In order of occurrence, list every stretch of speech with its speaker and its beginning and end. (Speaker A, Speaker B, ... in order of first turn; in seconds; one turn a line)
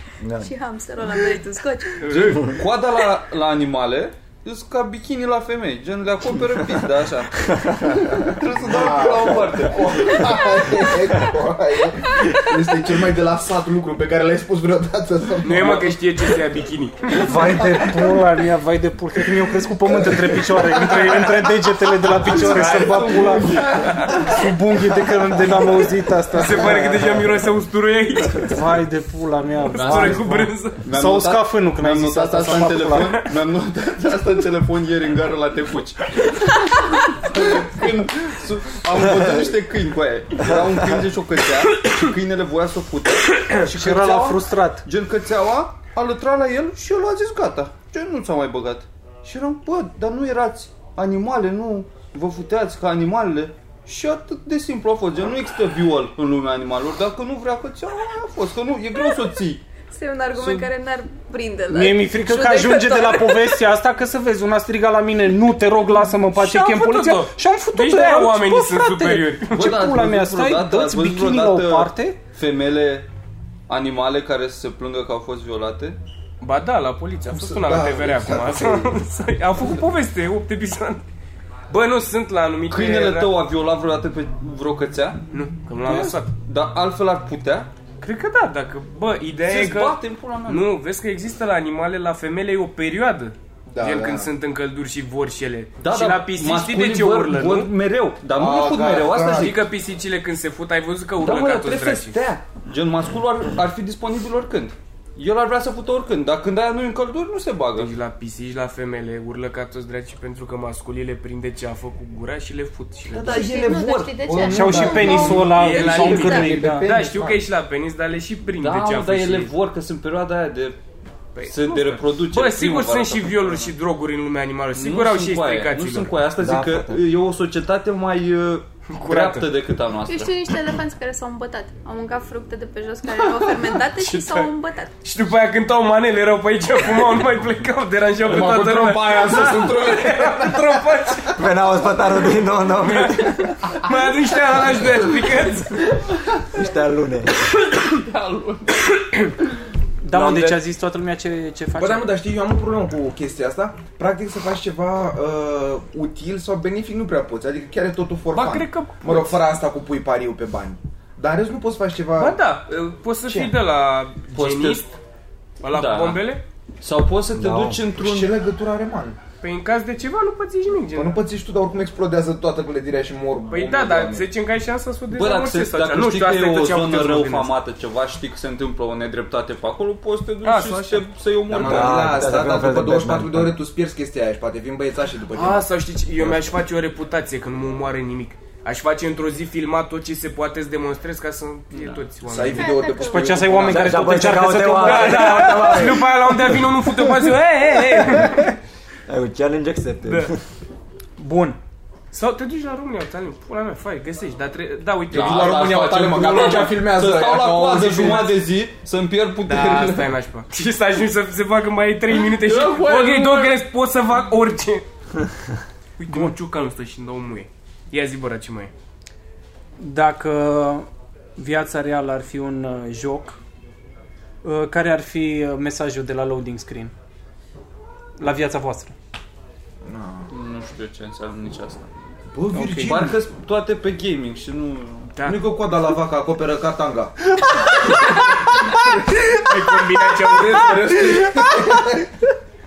Speaker A: 0.2-0.5
Speaker B: 0.4-2.0
Speaker C: 2.0-2.5
Speaker D: 2.1-10.5
Speaker A: 7.5-8.3
Speaker E: 8.5-16.0
Speaker C: 15.4-17.2
Speaker E: 17.2-18.1
Speaker F: 17.2-23.6
Speaker E: 19.9-21.5
Speaker D: 22.2-24.4
Speaker C: 22.3-24.2
Speaker F: 24.2-27.0
Speaker C: 26.3-28.6
Speaker F: 28.4-33.3
Speaker C: 29.7-30.8
Speaker D: 29.8-59.6
Speaker A: 40.5-40.8
Speaker F: 43.6-44.8
Speaker B: 59.9-63.6
Speaker D: 60.3-60.7
Speaker F: 61.7-72.2
Speaker C: 66.3-69.8
Speaker D: 69.5-73.1
Speaker D: 73.7-76.0
Speaker C: 76.4-81.0
Speaker E: 77.3-79.0
Speaker C: 81.7-83.3
Speaker D: 82.7-85.2
Speaker C: 85.3-86.3
Speaker D: 85.8-87.7
Speaker C: 88.0-97.7
Speaker D: 89.4-90.7
Speaker E: 93.7-94.3
Speaker D: 95.8-99.6
Speaker E: 98.3-99.6
Speaker C: 99.3-102.2
Speaker D: 101.2-107.9
Speaker C: 107.8-113.5
Speaker E: 113.1-113.5
Speaker D: 113.1-116.9
Speaker B: 113.1-115.5
Speaker E: 114.2-117.5
Speaker F: 114.4-116.9
Speaker C: 115.1-119.5
Speaker B: 116.1-116.4
Speaker D: 118.6-120.8
Speaker C: 121.3-126.2
Speaker D: 121.4-123.7
Speaker D: 124.8-130.3
Speaker A: 126.4-127.0
Speaker C: 128.9-129.5
Speaker B: 130.0-134.9
Speaker C: 133.5-141.4
Speaker E: 138.2-140.9
Speaker A: 141.3-143.5
Speaker C: 142.8-145.9
Speaker A: 146.5-147.3
Speaker D: 147.9-148.8
Speaker C: 148.9-149.3
Speaker F: 150.0-152.1
Speaker C: 150.1-150.6
Speaker E: 151.8-162.4
Speaker C: 158.3-159.4
Speaker C: 162.2-165.0
Speaker E: 163.3-163.5
Speaker D: 164.3-164.8
Speaker C: 165.6-166.4
Speaker D: 165.7-166.2
Speaker D: 166.8-168.3
Speaker A: 167.3-167.8
Speaker E: 168.0-169.2
Speaker C: 169.4-171.2
Speaker E: 170.9-174.3
Speaker C: 173.5-177.5
Speaker D: 175.1-182.3
Speaker C: 180.4-181.1
Speaker E: 181.5-185.7
Speaker A: 181.5-183.6
Speaker C: 185.3-192.8
Speaker D: 191.7-192.1
Speaker E: 192.2-194.3
Speaker B: 192.5-193.6
Speaker F: 193.0-195.9
Speaker A: 193.6-196.2
Speaker C: 194.7-198.5
Speaker A: 199.1-200.4
Speaker C: 200.0-200.3
Speaker F: 201.2-201.6
Speaker C: 202.1-205.6
Speaker D: 205.1-210.1
Speaker E: 205.1-208.4
Speaker C: 209.4-214.8
Speaker D: 212.3-213.5
Speaker C: 216.0-218.7
Speaker F: 219.8-223.4
Speaker F: 224.4-226.9
Speaker F: 228.2-228.9
Speaker E: 229.8-230.3
Speaker D: 230.3-231.9
Speaker E: 232.3-233.1
Speaker F: 232.5-233.0
Speaker D: 232.7-235.2
Speaker E: 235.2-242.1
Speaker C: 239.3-240.9